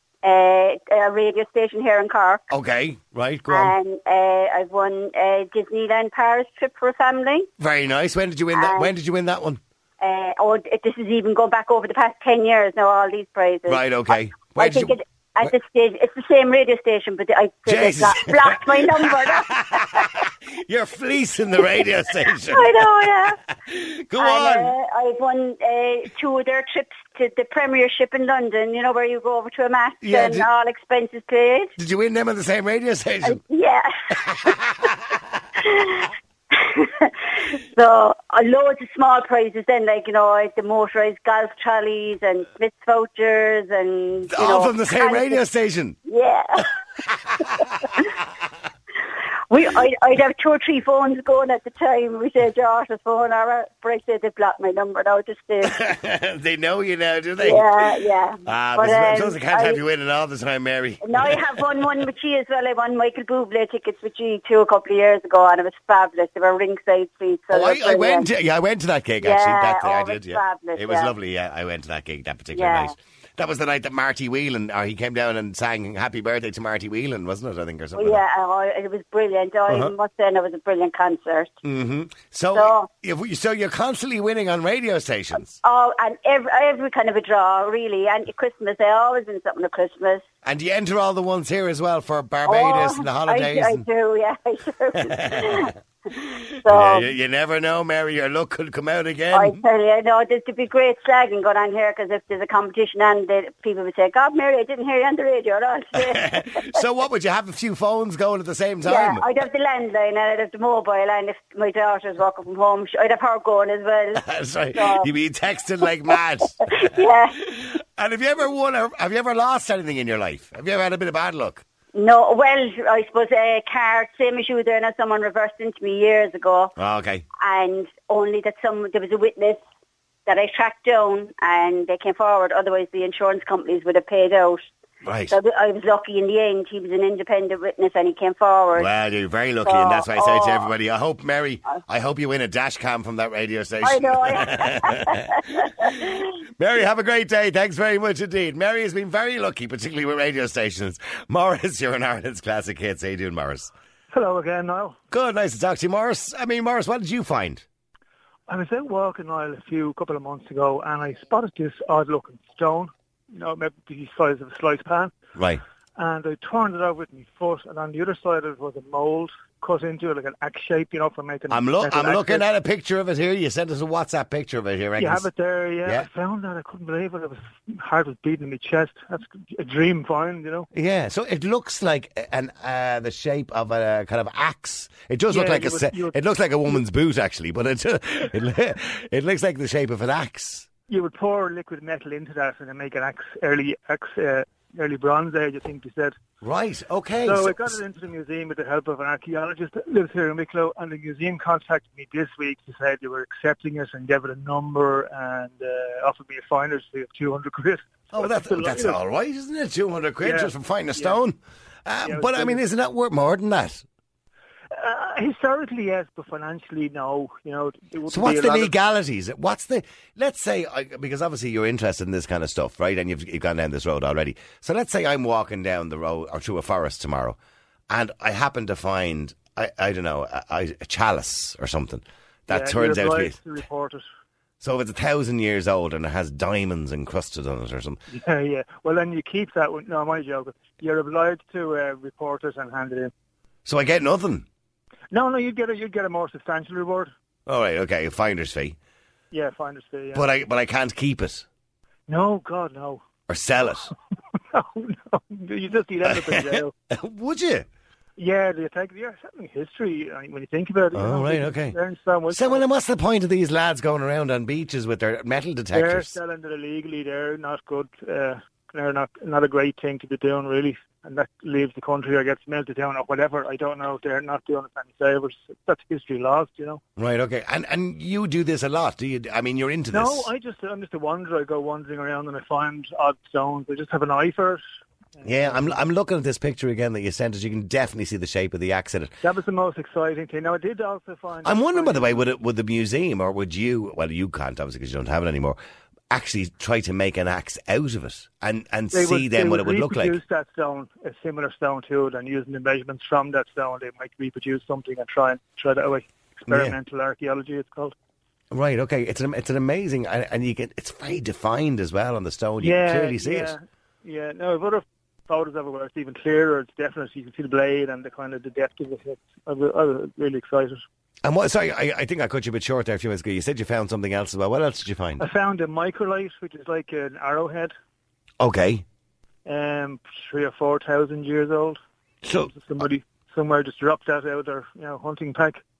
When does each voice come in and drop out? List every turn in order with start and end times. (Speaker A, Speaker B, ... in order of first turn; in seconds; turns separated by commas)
Speaker A: 0.2-2.4, Speaker B: 2.5-3.8, Speaker A: 3.5-7.5, Speaker B: 7.6-9.6, Speaker A: 8.5-8.9, Speaker A: 10.0-13.8, Speaker B: 13.7-15.5, Speaker A: 14.6-20.2, Speaker B: 17.6-23.1, Speaker A: 22.5-23.4, Speaker B: 23.6-24.7, Speaker A: 24.2-31.7, Speaker B: 30.0-30.5, Speaker B: 31.8-33.4, Speaker A: 33.2-34.5, Speaker B: 34.1-35.4, Speaker A: 35.6-45.4, Speaker B: 44.3-46.0, Speaker A: 46.0-46.7, Speaker B: 46.6-48.4, Speaker A: 47.6-48.0, Speaker A: 49.5-55.8, Speaker B: 55.6-62.0, Speaker A: 57.4-59.8, Speaker A: 61.0-68.2, Speaker B: 67.5-78.2, Speaker A: 69.2-71.1, Speaker A: 72.5-72.9, Speaker A: 77.9-81.5, Speaker B: 79.7-79.9, Speaker B: 81.6-85.6, Speaker A: 82.5-82.9, Speaker A: 85.6-90.2, Speaker B: 90.4-93.8, Speaker A: 92.5-97.0, Speaker B: 95.0-95.7, Speaker B: 96.6-99.6, Speaker A: 99.3-106.7, Speaker B: 106.0-109.4, Speaker A: 108.8-114.2, Speaker B: 114.1-116.9, Speaker A: 114.7-115.1, Speaker A: 116.7-117.4, Speaker B: 117.5-121.6, Speaker A: 121.9-126.7, Speaker B: 126.8-127.2, Speaker A: 127.4-129.6, Speaker A: 130.2-134.6, Speaker B: 135.0-135.4, Speaker A: 135.3-138.9, Speaker B: 138.8-146.0, Speaker A: 139.6-140.7, Speaker A: 143.8-146.3, Speaker B: 146.6-153.7, Speaker C: 154.1-155.0, Speaker B: 155.1-157.6, Speaker C: 158.5-165.1, Speaker B: 165.3-165.6, Speaker C: 166.0-172.4, Speaker B: 171.5-175.3, Speaker C: 175.0-180.7, Speaker B: 180.7-190.7, Speaker C: 185.3-186.1, Speaker C: 190.9-196.2, Speaker B: 196.4-197.8, Speaker C: 197.2-209.0, Speaker B: 208.1-213.8, Speaker C: 210.2-211.2, Speaker C: 212.0-212.6, Speaker C: 214.7-218.7, Speaker B: 218.1-227.4, Speaker B: 227.9-233.4, Speaker C: 232.5-234.0, Speaker B: 234.6-238.0, Speaker C: 238.1-243.1, Speaker B: 243.7-244.4, Speaker C: 245.1-247.1, Speaker B: 247.4-248.8, Speaker C: 249.3-250.2, Speaker B: 250.1-251.5, Speaker C: 252.1-253.0, Speaker B: 253.3-253.9, Speaker C: 254.5-256.7, Speaker B: 256.0-257.7, Speaker C: 258.2-262.6, Speaker B: 260.9-261.8, Speaker B: 262.3-266.2, Speaker C: 265.7-276.8, Speaker B: 277.0-280.3, Speaker C: 279.9-284.6, Speaker C: 285.2-285.7, Speaker B: 285.2-289.1, Speaker C: 289.2-292.2, Speaker B: 291.4-295.6, Speaker B: 296.1-300.2, Speaker C: 298.9-307.9, Speaker B: 306.5-306.8, Speaker B: 308.5-313.6, Speaker C: 312.6-320.8, Speaker B: 321.2-325.2, Speaker C: 325.2-327.7, Speaker B: 328.4-328.8, Speaker C: 329.4-331.8, Speaker B: 332.2-332.9, Speaker C: 332.4-335.6